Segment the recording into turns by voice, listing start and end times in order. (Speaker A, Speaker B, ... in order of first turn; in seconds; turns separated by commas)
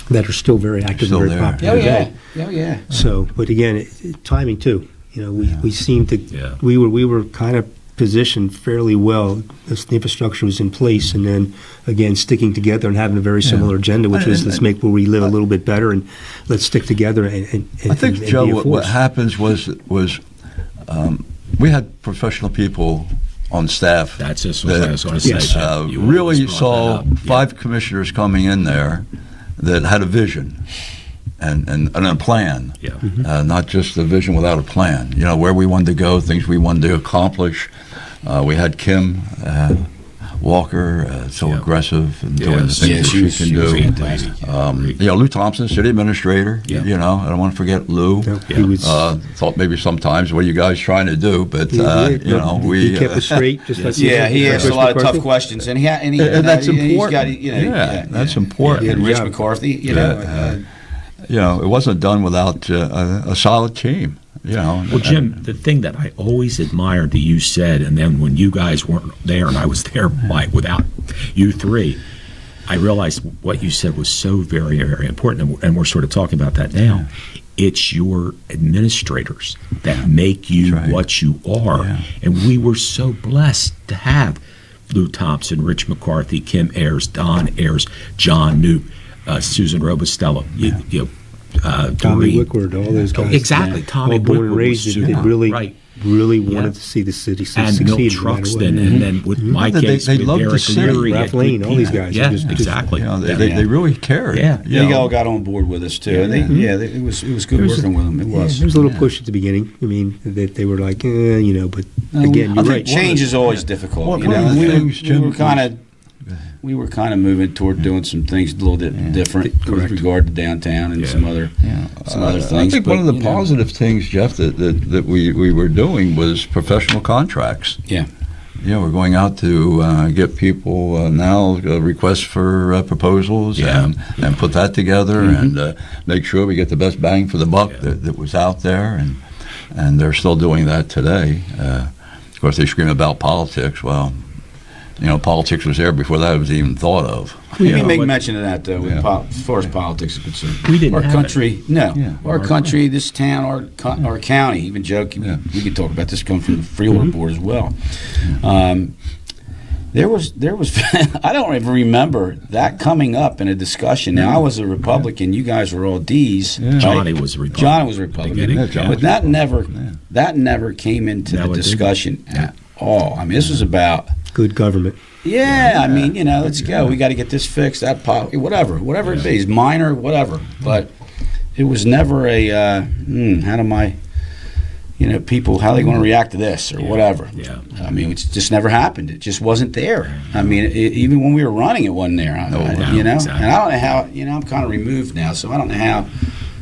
Speaker A: 0.1-2.1, Speaker B: 1.0-2.0, Speaker C: 1.6-2.9, Speaker A: 2.9-18.9, Speaker B: 13.4-14.6, Speaker B: 17.9-20.2, Speaker B: 20.9-29.1, Speaker D: 24.2-27.4, Speaker A: 25.2-25.5, Speaker B: 29.6-30.6, Speaker B: 31.4-37.7, Speaker B: 38.2-39.9, Speaker B: 40.4-53.5, Speaker D: 42.4-45.0, Speaker C: 42.8-44.5, Speaker A: 48.2-49.1, Speaker A: 51.7-55.3, Speaker D: 53.7-54.2, Speaker C: 54.0-60.6, Speaker B: 54.4-54.8, Speaker B: 56.2-59.1, Speaker A: 58.7-59.4, Speaker B: 59.9-60.6, Speaker B: 61.3-65.4, Speaker D: 64.9-72.0, Speaker D: 72.7-92.5, Speaker B: 80.6-81.0, Speaker B: 81.8-82.0, Speaker A: 92.0-99.6, Speaker D: 93.1-95.8, Speaker C: 93.2-93.8, Speaker B: 95.0-95.3, Speaker D: 96.5-96.7, Speaker D: 97.5-103.4, Speaker C: 98.7-99.1, Speaker B: 99.6-102.0, Speaker A: 100.4-102.9, Speaker B: 102.9-105.1, Speaker C: 103.3-103.7, Speaker D: 104.3-104.7, Speaker C: 104.7-108.7, Speaker A: 106.4-106.7, Speaker A: 107.6-113.0, Speaker B: 108.8-109.1, Speaker C: 112.1-115.8, Speaker B: 112.5-115.7, Speaker D: 114.4-114.8, Speaker C: 116.6-121.5, Speaker B: 118.9-119.2, Speaker A: 119.5-120.0, Speaker D: 121.0-121.2, Speaker B: 121.6-127.8, Speaker C: 122.1-123.5, Speaker B: 128.6-144.2, Speaker D: 133.6-133.9, Speaker C: 135.2-135.6, Speaker B: 145.0-148.0, Speaker D: 147.6-148.1, Speaker C: 147.6-158.9, Speaker D: 150.6-151.5, Speaker D: 152.2-152.7, Speaker C: 159.9-174.1, Speaker B: 166.6-167.0, Speaker D: 166.8-169.0, Speaker B: 168.3-170.0, Speaker D: 171.3-172.5, Speaker A: 174.3-175.0, Speaker C: 175.2-180.9, Speaker B: 175.6-176.1, Speaker C: 181.6-184.0, Speaker C: 185.0-196.1, Speaker D: 186.9-187.7, Speaker B: 192.5-193.1, Speaker D: 192.6-193.5